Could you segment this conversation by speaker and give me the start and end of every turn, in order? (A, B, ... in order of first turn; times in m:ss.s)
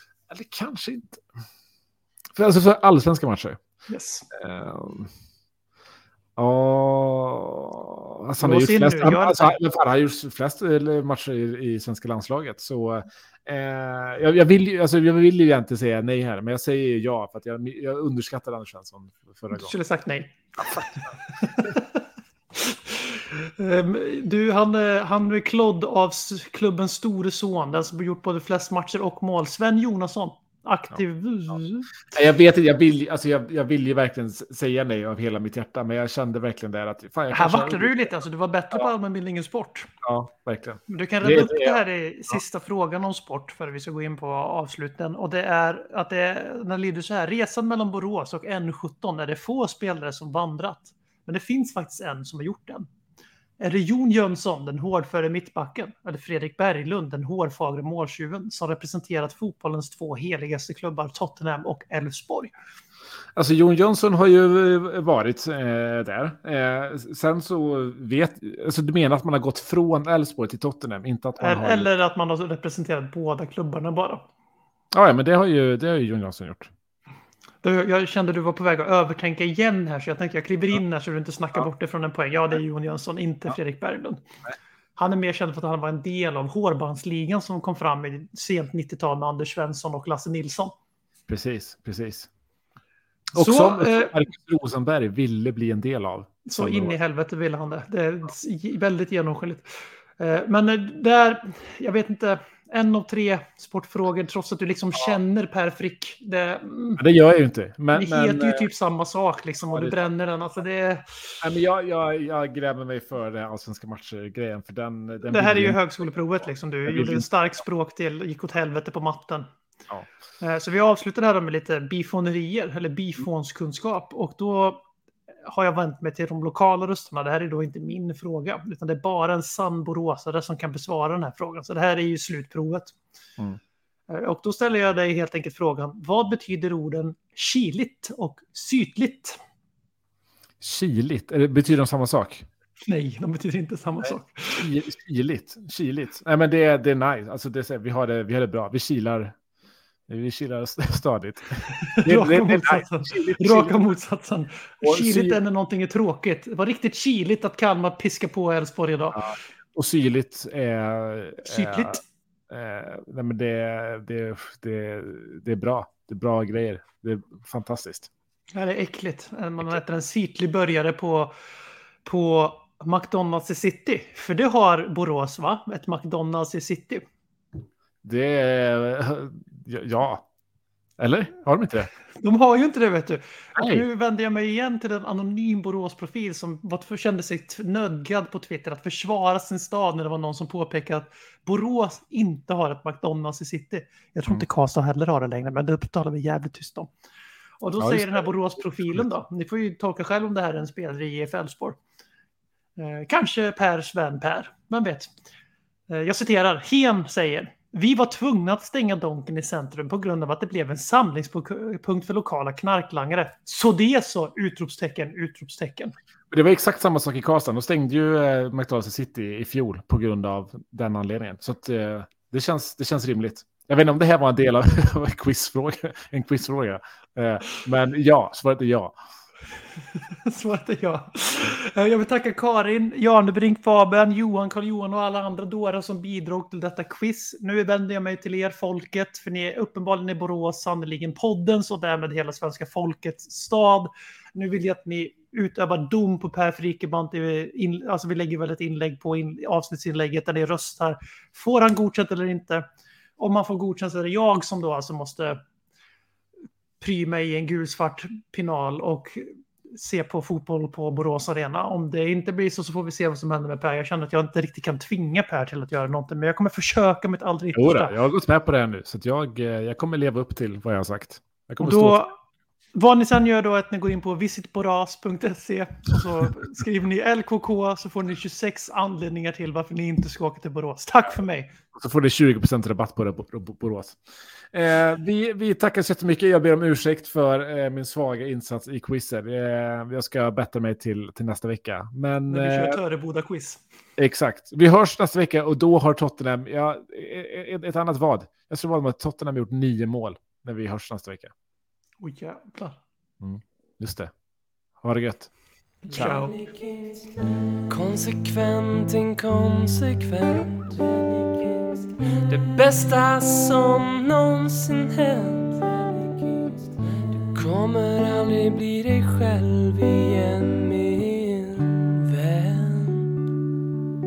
0:00.3-0:01.2 A
0:02.4-0:03.6 A
0:03.9-0:04.3 B
0:04.3-0:05.1 A
0:06.4-0:19.7 A
0:08.4-0:09.6 B
0:19.5-0:21.9 B
0:22.6-0:31.9 B
0:32.1-0:38.2 A
0:37.3-0:39.9 B
0:40.0-0:41.8 A
0:40.9-0:52.9 B
0:53.6-1:02.5 B
1:03.4-1:11.9 A
1:11.4-1:14.2 B
1:14.9-1:16.7 A
1:17.6-1:24.2 B
1:25.0-1:30.7 B
1:31.3-1:32.3 A
1:33.3-1:34.1 B
1:33.3-1:37.0 A
1:36.5-1:47.0 B
1:47.0-1:48.7 A
1:47.9-1:51.4 B
1:49.7-1:50.0 A
1:51.4-1:55.8 A
1:55.3-1:59.5 B
1:56.9-1:57.3 A
2:00.4-2:04.8 B
2:05.4-2:13.0 B
2:14.1-2:19.4 B
2:20.6-2:22.5 A
2:22.8-2:24.7 B
2:24.6-2:29.4 A
2:30.1-2:33.9 A
2:31.9-2:39.3 B
2:34.8-2:35.4 A
2:39.1-2:48.1 A
2:41.5-2:42.0 B
2:48.6-2:51.3 B
2:52.0-2:57.0 B
2:58.0-3:00.2 A
3:01.0-3:01.9 A
3:02.2-3:16.9 B
3:03.6-3:03.8 A
3:17.6-3:21.8 B
3:17.8-3:18.3 A
3:22.8-3:25.1 B
3:25.9-3:36.0 B
3:36.3-3:49.0 A
3:50.1-4:12.7 B
4:13.2-4:15.4 B
4:16.8-4:27.9 B
4:27.6-4:32.0 A
4:31.6-4:32.2 B
4:32.7-4:41.5 B
4:41.8-4:44.0 A
4:44.5-4:52.8 A
4:52.3-4:53.6 B
4:54.0-5:01.3 A
5:02.0-5:02.8 B
5:03.2-5:04.1 A
5:04.8-5:06.2 A
5:05.9-5:06.4 B
5:05.9-5:23.2 C